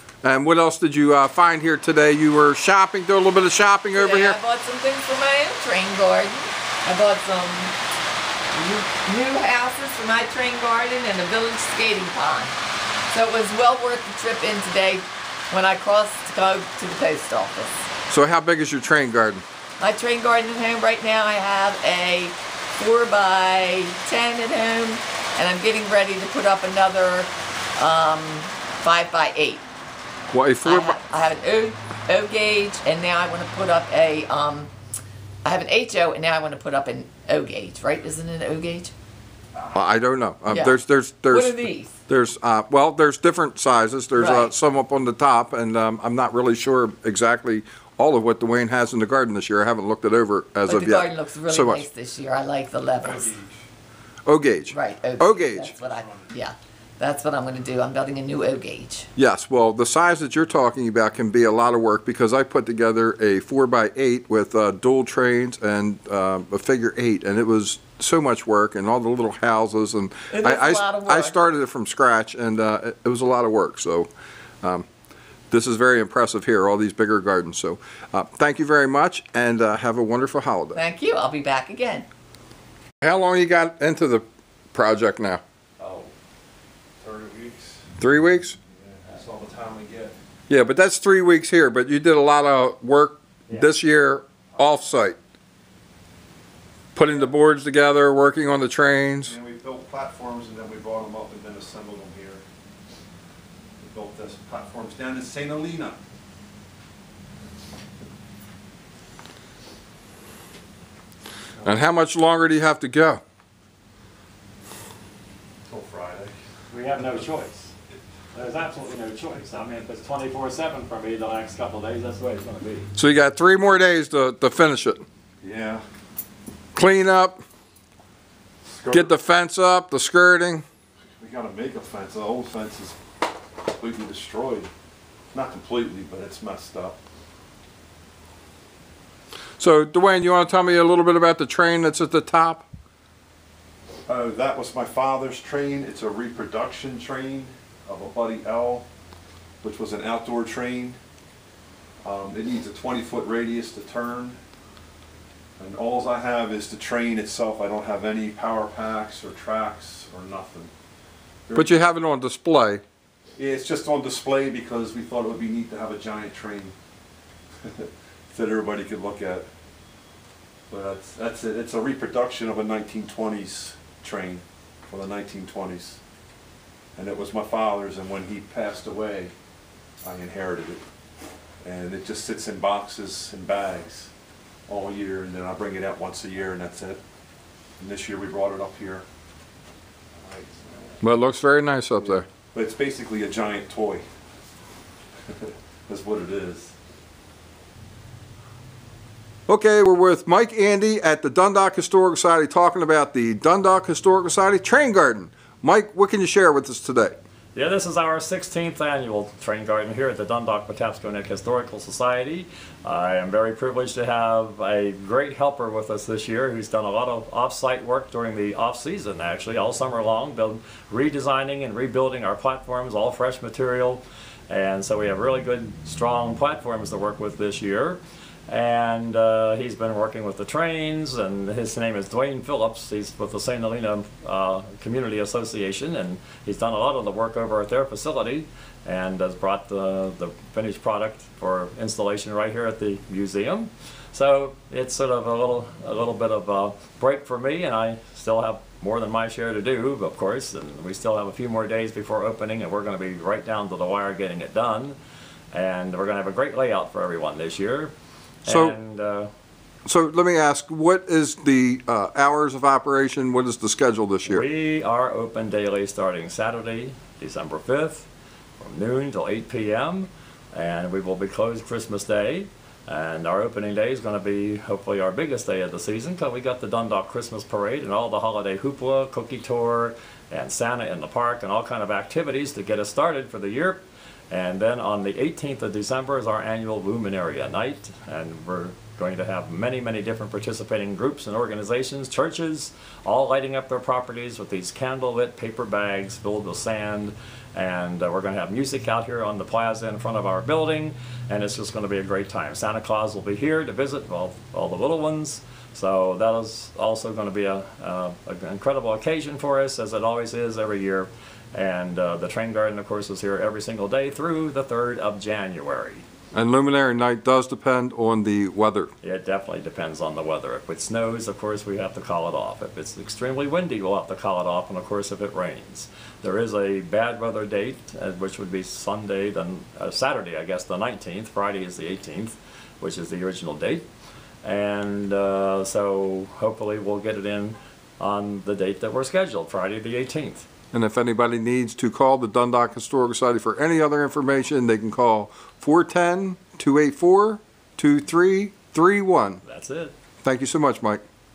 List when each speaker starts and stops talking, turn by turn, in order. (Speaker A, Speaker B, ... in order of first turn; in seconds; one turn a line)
Speaker A: 0.2-4.4
Speaker B: 3.9-7.8
Speaker B: 8.5-12.6
Speaker B: 13.1-17.9
Speaker A: 18.1-19.4
Speaker B: 19.8-29.6
Speaker A: 30.3-31.0
Speaker B: 30.6-34.7
Speaker B: 35.4-38.9
Speaker A: 39.7-51.9
Speaker B: 40.5-42.0
Speaker B: 44.2-44.5
Speaker B: 50.6-53.4
Speaker C: 53.0-53.6
Speaker A: 54.3-55.7
Speaker B: 54.7-59.1
Speaker C: 55.9-56.3
Speaker A: 59.2-74.1
Speaker B: 70.3-71.4
Speaker A: 75.5-80.8
Speaker B: 80.7-82.1
Speaker A: 83.0-85.4
Speaker C: 85.8-86.1
Speaker C: 87.0-87.9
Speaker A: 88.0-88.6
Speaker C: 88.8-90.2
Speaker A: 90.5-95.2
Speaker A: 97.0-99.3
Speaker C: 99.2-102.4
Speaker C: 103.8-106.0
Speaker A: 111.6-113.2
Speaker C: 115.7-116.3
Speaker D: 116.7-117.7
Speaker D: 118.3-122.9
Speaker A: 123.0-125.0
Speaker C: 125.4-125.8
Speaker A: 126.8-127.4
Speaker C: 128.6-129.1
Speaker A: 128.9-130.6
Speaker C: 131.2-133.0
Speaker C: 133.6-134.7
Speaker C: 135.3-137.0
Speaker A: 139.6-142.7
Speaker C: 144.1-148.8
Speaker C: 149.6-151.0
Speaker C: 152.0-154.4
Speaker C: 155.6-160.7
Speaker C: 161.5-161.8
Speaker A: 161.6-162.8
Speaker C: 163.4-166.7
Speaker C: 167.6-169.5
Speaker C: 170.7-176.0
Speaker C: 177.0-179.3
Speaker C: 180.0-180.8
Speaker C: 181.6-184.1
Speaker C: 184.7-187.0
Speaker C: 187.8-189.1
Speaker C: 190.2-191.0
Speaker A: 191.0-192.3
Speaker C: 192.0-194.0
Speaker C: 195.3-196.7
Speaker A: 199.5-207.2
Speaker D: 207.6-255.0
Speaker D: 255.5-257.9
Speaker D: 258.4-259.3
Speaker A: 258.5-258.8
Speaker A: 259.9-264.5
Speaker D: 264.3-268.1
Speaker D: 268.6-316.1
Speaker A: 316.3-318.9
Speaker D: 319.0-333.9
Speaker D: 334.4-340.5
Speaker A: 340.7-349.4
Speaker D: 349.4-349.9
Speaker A: 350.2-351.0